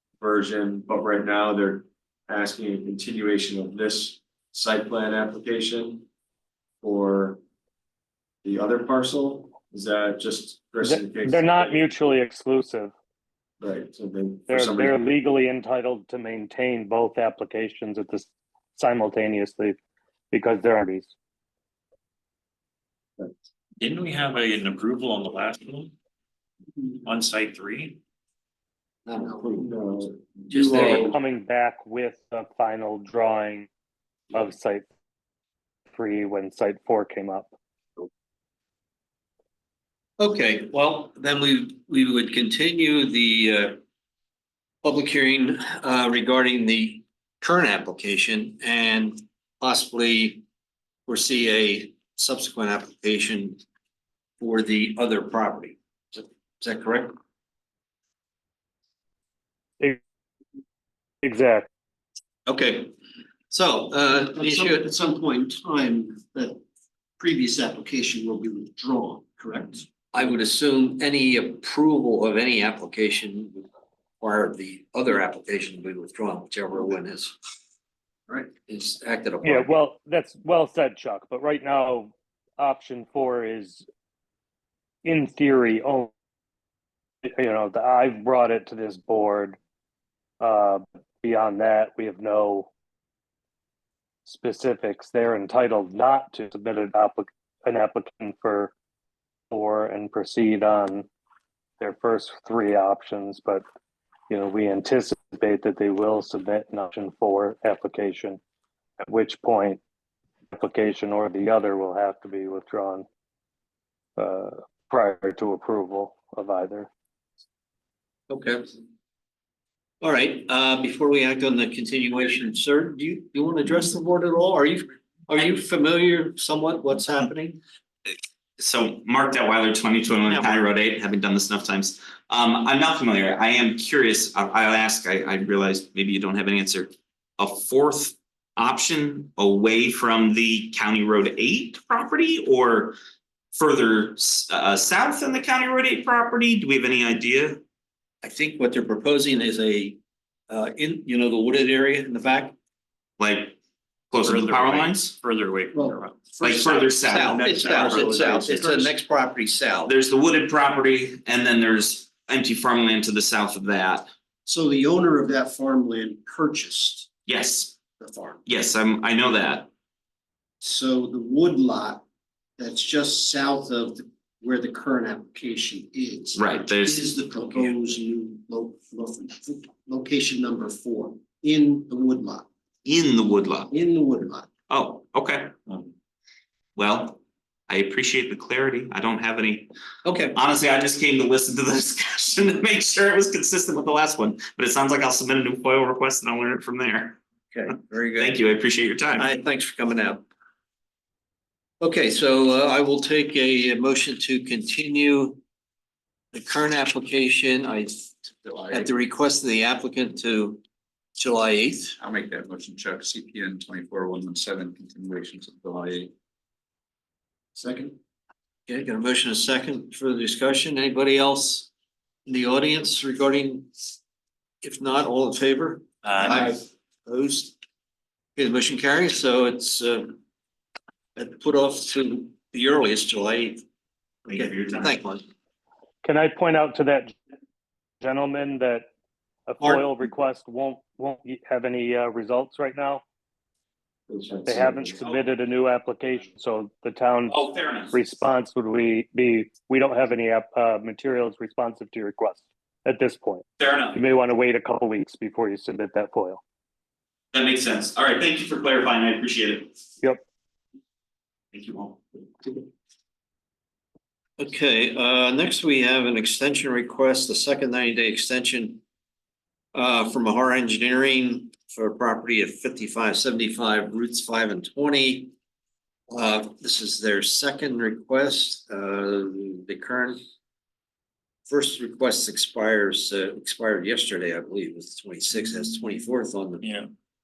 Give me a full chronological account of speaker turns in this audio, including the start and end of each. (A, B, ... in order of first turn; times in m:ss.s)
0:00.2-0:06.0 A
0:06.8-0:07.4 A
0:08.4-0:11.9 A
0:10.8-0:12.9 B
0:13.6-0:15.0 A
0:14.5-0:19.8 B
0:20.3-0:21.1 B
0:23.8-0:25.9 C
0:27.0-0:28.0 C
0:29.0-0:29.7 D
0:30.5-0:31.1 D
0:30.5-0:31.0 E
0:30.9-0:33.7 B
0:34.3-0:34.9 B
0:35.9-0:37.5 B
0:40.2-0:43.8 D
0:44.8-0:50.4 D
0:51.1-0:53.6 D
0:54.4-0:57.1 D
1:01.2-1:01.7 B
1:02.4-1:02.9 D
1:03.5-1:04.8 D
1:04.4-1:06.6 E
1:07.2-1:09.9 E
1:10.1-1:13.7 D
1:14.2-1:17.3 D
1:18.6-1:19.7 D
1:19.4-1:23.8 B
1:25.0-1:26.1 B
1:27.4-1:29.6 B
1:30.4-1:32.7 B
1:34.2-1:38.7 B
1:39.5-1:41.1 B
1:41.8-1:43.6 B
1:44.3-1:48.4 B
1:49.1-1:49.8 B
1:50.5-1:53.0 B
1:54.2-1:56.9 B
1:58.3-1:58.7 D
2:00.0-2:07.6 D
2:08.0-2:22.9 F
2:10.3-2:10.5 D
2:23.5-2:27.6 F
2:28.2-2:32.5 D
2:33.2-2:33.6 F
2:34.1-2:35.1 F
2:34.2-2:38.0 C
2:35.7-2:36.6 E
2:36.4-2:37.6 F
2:37.0-2:39.9 D
2:39.8-2:44.1 F
2:44.4-2:47.1 E
2:47.3-2:47.8 F
2:48.0-2:48.4 E
2:48.4-2:49.7 F
2:50.6-2:52.0 E
2:52.6-3:02.4 E
2:56.3-2:57.1 F
2:57.4-2:57.9 D
3:02.8-3:03.7 F
3:03.7-3:04.5 E
3:04.7-3:05.8 F
3:06.8-3:09.7 F
3:10.0-3:10.4 D
3:10.3-3:17.2 F
3:17.5-3:18.4 D
3:18.2-3:19.3 F
3:19.2-3:20.2 D
3:21.8-3:25.4 D
3:26.3-3:28.1 D
3:28.4-3:28.9 G
3:28.7-3:30.6 D
3:31.2-3:32.0 D
3:32.0-3:36.1 G
3:38.7-3:41.7 D
3:42.2-3:43.7 D
3:44.6-3:47.6 D
3:46.1-3:46.3 C
3:48.4-3:50.2 D
3:51.2-3:53.6 D
3:54.3-3:54.9 F
3:54.3-3:55.2 D
3:56.0-3:57.2 B
3:58.0-3:58.9 B
3:59.4-4:03.0 B
3:59.6-3:59.9 D
4:04.1-4:05.0 A
4:04.4-4:16.4 B
4:05.0-4:05.3 F
4:07.3-4:08.0 F
4:13.6-4:14.0 F
4:17.3-4:19.7 F
4:21.5-4:22.6 F
4:24.4-4:28.8 D
4:29.7-4:35.3 D
4:36.1-4:40.2 D
4:41.5-4:46.7 D